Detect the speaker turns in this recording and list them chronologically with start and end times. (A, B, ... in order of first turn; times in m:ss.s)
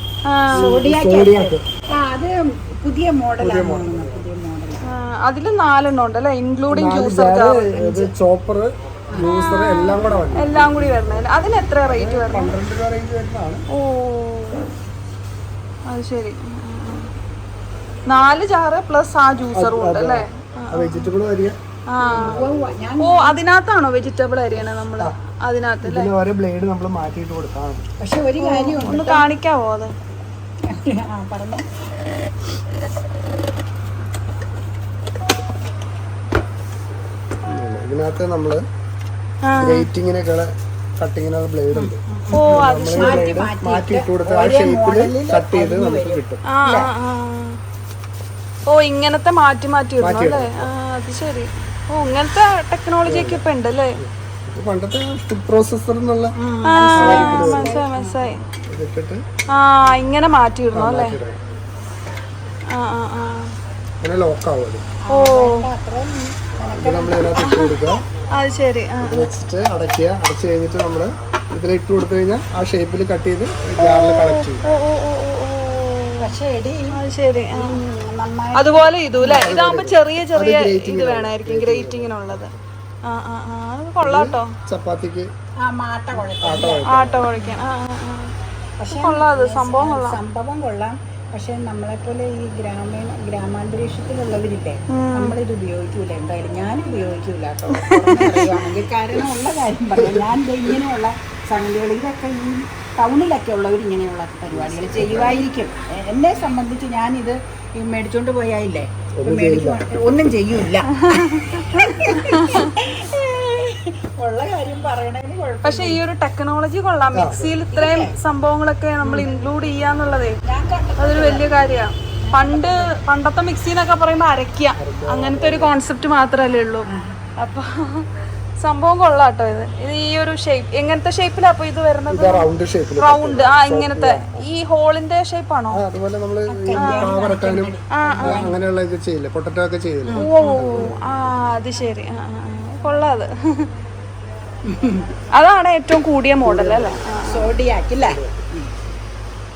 0:00.3-0:00.7 A
0:00.5-0:01.6 B
0:00.5-0:04.8 C
0:03.4-0:04.3 B
0:04.9-0:08.1 A
0:06.7-0:11.2 B
0:09.2-0:12.6 A
0:11.8-0:13.6 B
0:13.7-0:14.6 A
0:15.9-0:17.1 A
0:18.1-0:21.1 A
0:19.5-0:21.6 B
0:21.9-0:22.4 A
0:22.0-0:23.4 C
0:22.2-0:22.5 B
0:23.0-0:26.1 A
0:25.8-0:27.9 B
0:28.0-0:29.3 C
0:28.4-0:29.9 A
0:30.7-0:31.6 C
0:37.4-0:38.6 B
0:39.4-0:39.9 A
0:39.6-0:46.4 B
0:41.7-0:46.9 C
0:42.3-0:43.4 A
0:46.5-0:47.6 A
0:48.7-0:54.0 A
0:50.0-0:50.7 B
0:53.0-0:53.4 B
0:54.0-0:56.4 B
0:56.4-0:58.4 C
0:56.7-0:58.4 A
0:56.9-0:57.8 B
0:58.6-0:59.2 B
0:59.5-1:01.2 A
1:00.7-1:01.4 B
1:02.7-1:03.5 A
1:04.0-1:04.8 B
1:05.0-1:07.3 C
1:05.1-1:05.7 A
1:06.6-1:08.0 B
1:07.4-1:09.3 A
1:09.0-1:14.7 B
1:13.8-1:16.4 A
1:16.2-1:19.5 C
1:16.9-1:17.8 A
1:18.6-1:22.5 A
1:19.3-1:22.2 B
1:23.0-1:24.6 A
1:24.0-1:25.3 B
1:25.6-1:27.6 C
1:26.4-1:27.3 B
1:26.9-1:28.3 A
1:28.8-1:56.0 C
1:28.9-1:30.2 A
1:34.9-1:35.4 A
1:37.8-1:38.4 A
1:40.0-1:40.3 B
1:44.8-1:45.4 B
1:49.2-1:50.0 B
1:51.0-1:52.7 A
1:55.6-2:00.4 A
1:57.1-1:57.6 B
1:57.7-1:58.2 C
2:00.4-2:01.7 C
2:01.0-2:08.1 A
2:02.2-2:03.0 C
2:04.8-2:05.8 B
2:06.9-2:07.3 C
2:08.6-2:12.5 A
2:12.1-2:14.4 B
2:13.0-2:15.8 A
2:15.7-2:21.0 B
2:16.5-2:18.6 C
2:16.8-2:17.1 A
2:18.0-2:18.4 A
2:20.1-2:23.7 A
2:24.6-2:25.1 C
2:25.3-2:27.5 A
2:26.4-2:27.3 B
2:27.2-2:28.7 C
2:28.0-2:28.4 B